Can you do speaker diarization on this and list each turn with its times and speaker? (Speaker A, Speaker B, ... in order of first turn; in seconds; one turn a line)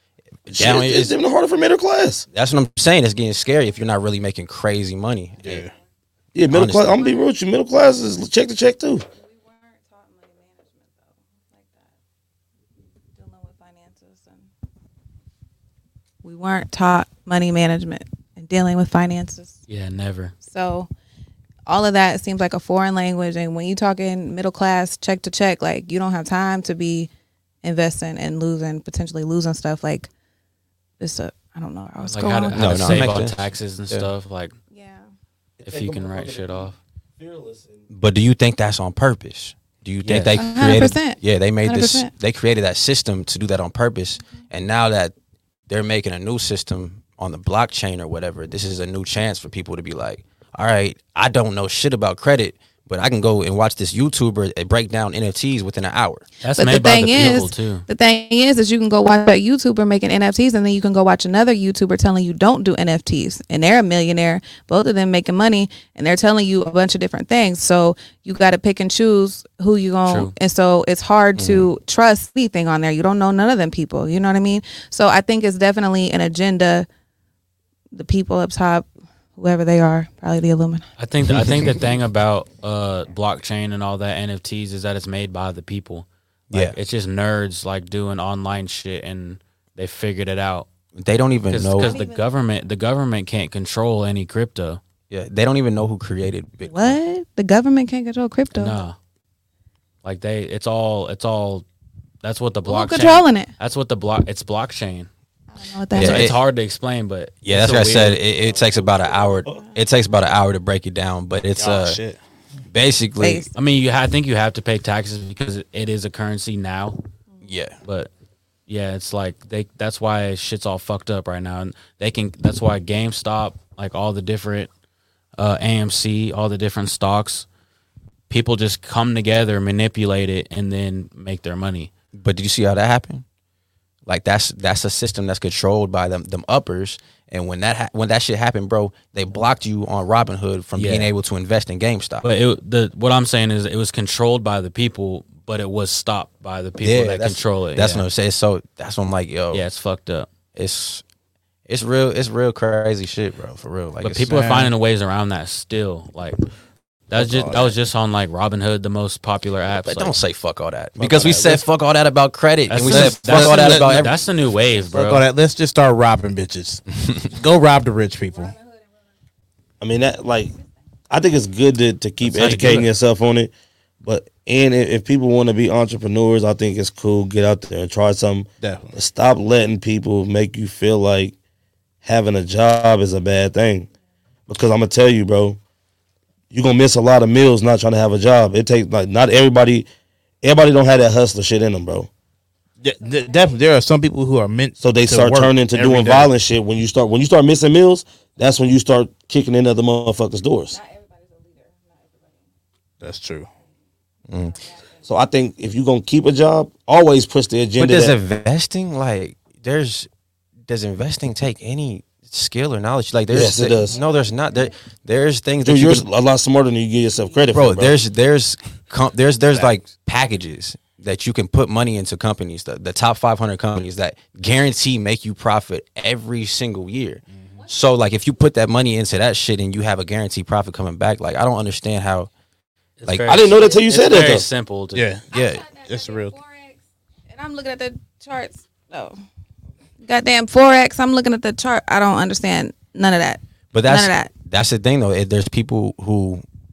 Speaker A: 0.5-1.1
Speaker B: 0.5-2.3
Speaker A: 2.3-5.7
Speaker C: 5.4-5.7
Speaker B: 6.3-9.1
Speaker A: 6.5-7.2
Speaker D: 9.2-12.0
Speaker D: 13.2-14.5
Speaker D: 16.2-19.6
Speaker E: 19.7-20.3
Speaker D: 20.4-20.9
Speaker D: 21.7-27.1
Speaker D: 27.6-30.1
Speaker D: 31.0-33.0
Speaker E: 32.0-34.5
Speaker A: 32.5-34.1
Speaker D: 34.7-35.1
Speaker B: 35.6-37.9
Speaker E: 35.6-36.8
Speaker A: 37.9-45.1
Speaker E: 40.0-40.4
Speaker D: 40.3-42.1
Speaker A: 45.7-56.3
Speaker E: 56.4-57.9
Speaker D: 56.5-76.9
Speaker A: 57.2-57.5
Speaker E: 70.1-70.3
Speaker A: 71.4-71.7
Speaker D: 77.9-80.8
Speaker E: 81.0-90.7
Speaker A: 81.3-81.7
Speaker A: 86.5-86.8
Speaker A: 91.0-92.0
Speaker E: 91.5-94.8
Speaker D: 91.8-92.2
Speaker A: 95.1-97.0
Speaker D: 96.6-98.8
Speaker E: 98.5-99.0
Speaker E: 100.0-101.7
Speaker E: 102.2-105.1
Speaker D: 102.7-103.5
Speaker D: 105.5-106.3
Speaker E: 105.9-108.2
Speaker A: 106.0-106.4
Speaker A: 107.4-112.0
Speaker B: 108.6-109.6
Speaker C: 111.6-112.2
Speaker A: 112.7-113.5
Speaker D: 113.2-113.5
Speaker E: 113.5-117.0
Speaker A: 117.4-117.8
Speaker E: 117.8-118.1
Speaker E: 118.7-124.7
Speaker E: 125.4-127.5
Speaker E: 128.3-131.9
Speaker A: 132.2-133.2
Speaker A: 134.1-142.3
Speaker E: 140.8-141.1
Speaker E: 142.2-148.1
Speaker A: 146.8-149.7
Speaker E: 149.5-150.3
Speaker A: 150.6-151.0
Speaker A: 151.7-154.3
Speaker E: 154.0-156.4
Speaker C: 154.3-154.7
Speaker E: 157.1-160.2
Speaker C: 157.2-157.8
Speaker A: 159.8-164.2
Speaker B: 161.0-161.6
Speaker E: 162.7-165.3
Speaker C: 162.8-164.1
Speaker C: 164.9-168.6
Speaker B: 169.8-170.6
Speaker B: 171.1-173.5
Speaker E: 172.2-172.9
Speaker B: 174.0-181.3
Speaker C: 178.6-179.0
Speaker B: 182.0-183.9
Speaker B: 184.5-185.6
Speaker B: 186.5-189.9
Speaker B: 190.4-192.1
Speaker C: 192.8-196.3
Speaker B: 194.8-200.8
Speaker D: 200.7-202.4
Speaker C: 203.0-203.5
Speaker A: 204.3-204.6
Speaker B: 205.1-208.2
Speaker A: 207.8-210.1
Speaker A: 210.7-216.1
Speaker B: 213.3-214.0
Speaker B: 215.6-218.0
Speaker A: 217.5-232.3
Speaker E: 233.0-235.1
Speaker A: 233.1-233.5
Speaker B: 233.3-234.5
Speaker C: 234.9-235.3
Speaker A: 235.3-235.7
Speaker D: 235.3-236.8
Speaker C: 235.8-236.3
Speaker D: 237.3-239.2
Speaker D: 240.0-244.3
Speaker A: 243.7-246.4